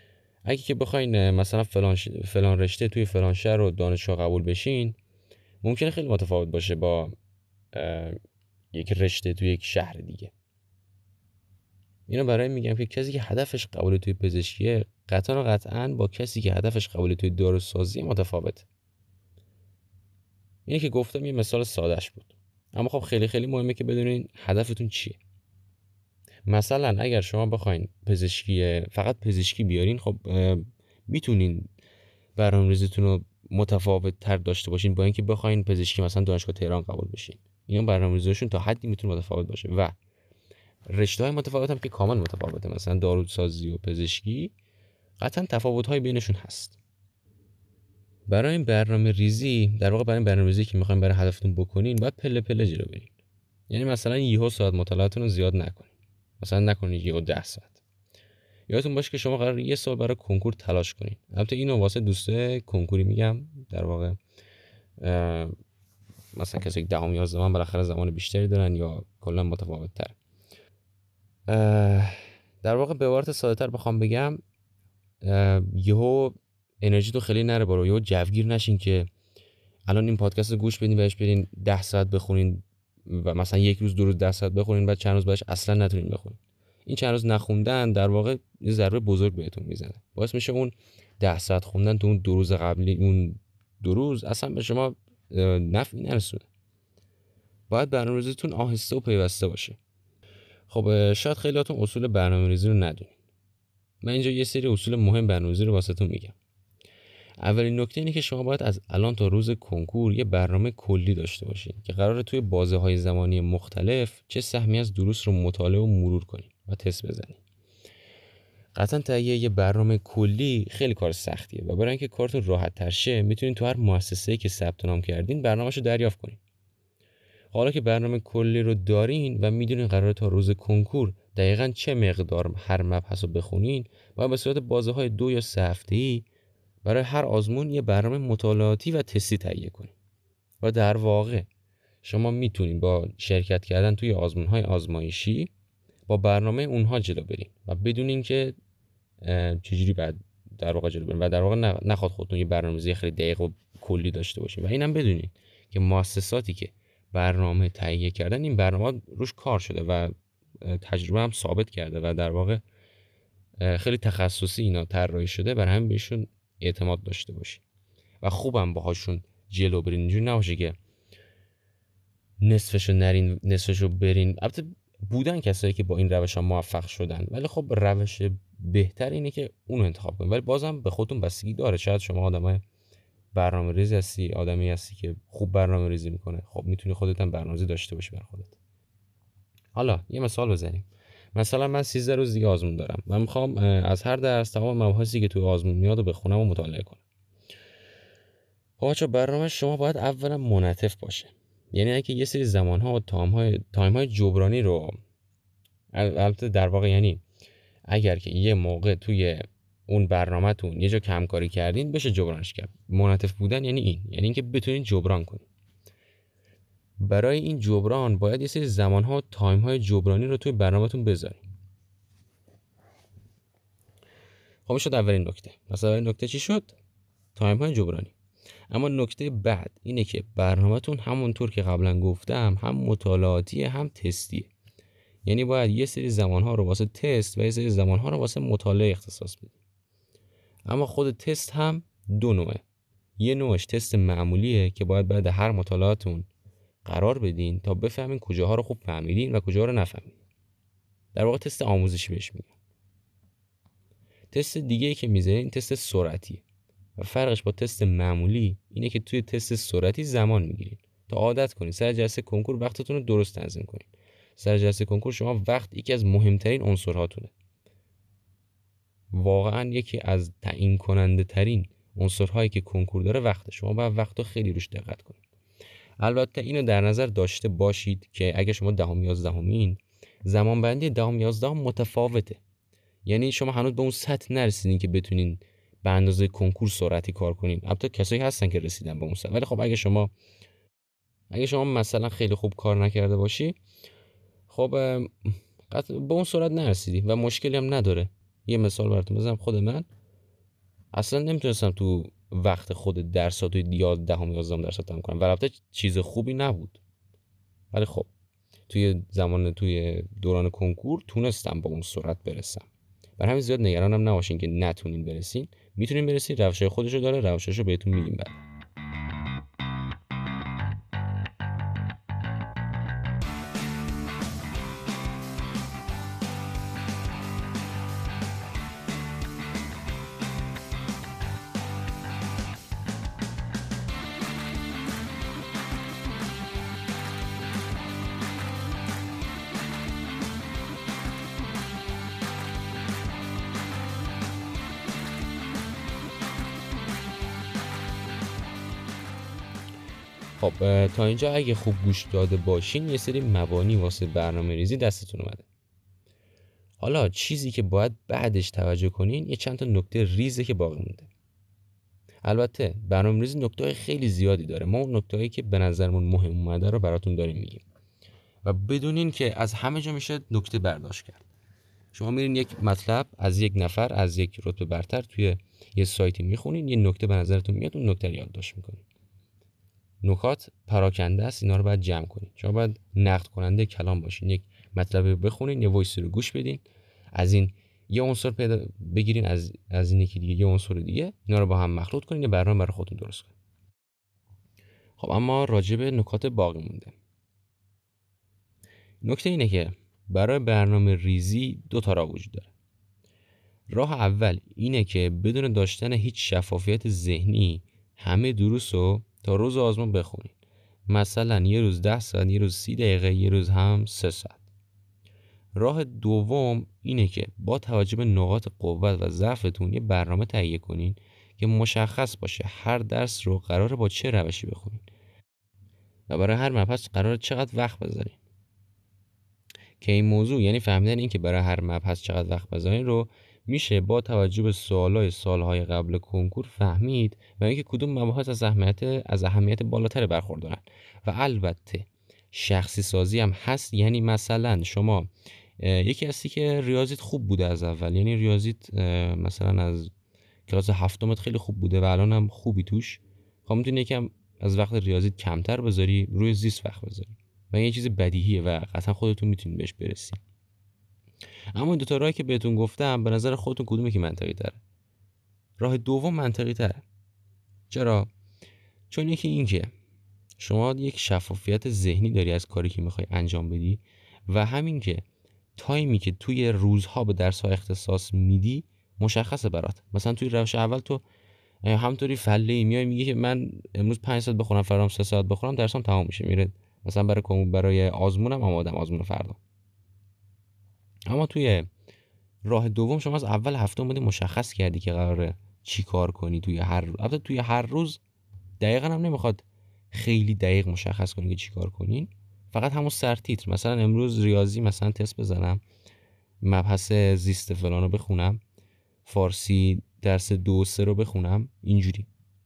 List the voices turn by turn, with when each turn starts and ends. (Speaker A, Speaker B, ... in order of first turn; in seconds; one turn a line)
Speaker A: 0.4-5.0
Speaker A: 5.6-7.1
Speaker A: 7.7-8.2
Speaker A: 8.7-10.3
Speaker A: 12.1-18.7
Speaker A: 20.6-25.2
Speaker A: 26.5-31.7
Speaker A: 32.4-40.0
Speaker A: 40.9-44.5
Speaker A: 45.2-46.8
Speaker A: 48.3-53.1
Speaker A: 53.7-57.8
Speaker A: 58.7-64.2
Speaker A: 65.0-65.5
Speaker A: 66.3-70.2
Speaker A: 71.5-74.4
Speaker A: 75.2-79.1
Speaker A: 79.9-96.5
Speaker A: 97.7-99.8
Speaker A: 100.7-103.1
Speaker A: 104.0-106.3
Speaker A: 107.4-117.4
Speaker A: 118.7-126.4
Speaker A: 127.5-136.2
Speaker A: 136.8-139.9
Speaker A: 140.6-141.5
Speaker A: 142.0-145.5
Speaker A: 146.1-148.5
Speaker A: 149.2-162.6
Speaker A: 163.6-167.6
Speaker A: 168.2-170.8
Speaker A: 172.4-182.6
Speaker A: 183.3-188.6
Speaker A: 189.7-197.0
Speaker A: 198.8-205.0
Speaker A: 205.9-207.2
Speaker A: 207.9-215.4
Speaker A: 217.0-221.4
Speaker A: 224.7-226.8
Speaker A: 227.3-228.1
Speaker A: 228.7-234.5
Speaker A: 235.2-239.5
Speaker A: 240.7-242.6
Speaker A: 243.2-246.3
Speaker A: 246.8-250.2
Speaker A: 251.1-252.5
Speaker A: 254.3-256.4
Speaker A: 257.0-267.3
Speaker A: 269.1-275.2
Speaker A: 276.0-282.4
Speaker A: 283.0-290.1
Speaker A: 291.3-293.6
Speaker A: 294.5-299.9
Speaker A: 300.9-306.8
Speaker A: 307.7-308.1
Speaker A: 308.7-312.6
Speaker A: 313.2-318.4
Speaker A: 350.4-355.4
Speaker A: 356.8-361.1
Speaker A: 362.2-367.6
Speaker A: 368.4-371.2
Speaker A: 371.9-378.8
Speaker A: 380.0-386.6
Speaker A: 387.1-393.3
Speaker A: 395.0-396.9
Speaker A: 399.0-402.5
Speaker A: 403.7-410.4
Speaker A: 410.9-414.4
Speaker A: 415.5-424.8
Speaker A: 426.1-428.2
Speaker A: 429.8-445.1
Speaker A: 445.6-449.9
Speaker A: 450.5-460.2
Speaker A: 461.5-464.6
Speaker A: 465.6-466.8
Speaker A: 467.7-468.1
Speaker A: 468.9-469.7
Speaker A: 470.4-475.0
Speaker A: 475.6-481.0
Speaker A: 481.6-489.4
Speaker A: 491.1-491.7
Speaker A: 492.4-498.0
Speaker A: 498.6-505.6
Speaker A: 506.4-508.4
Speaker A: 509.0-512.1